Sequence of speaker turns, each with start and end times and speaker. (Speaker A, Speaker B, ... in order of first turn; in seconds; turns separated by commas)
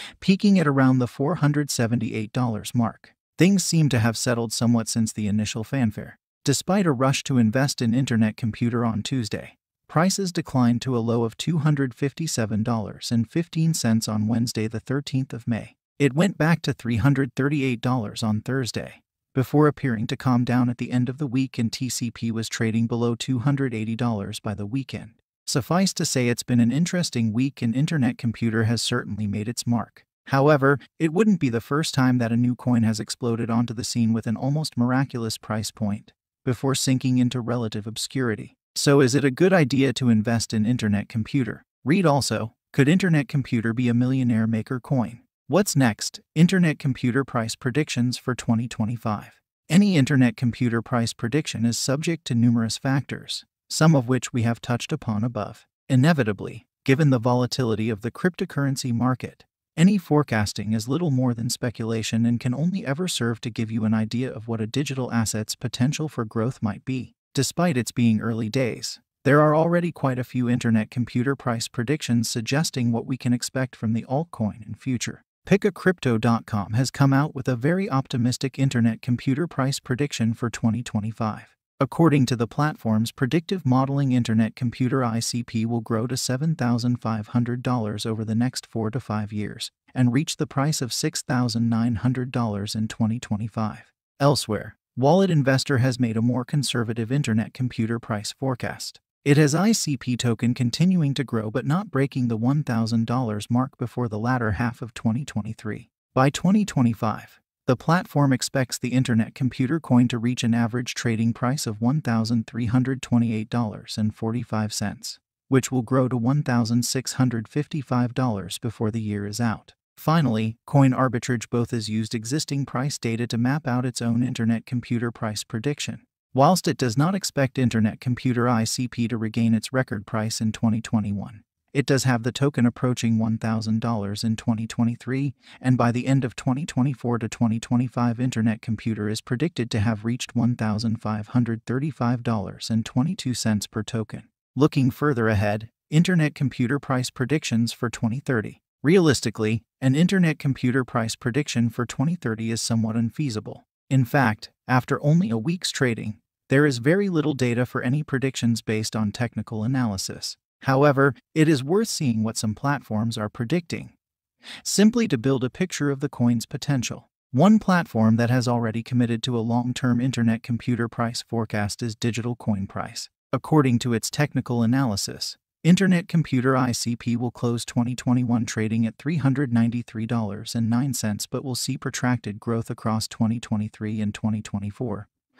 Speaker A: 0.2-163.9, Speaker A: 164.6-185.1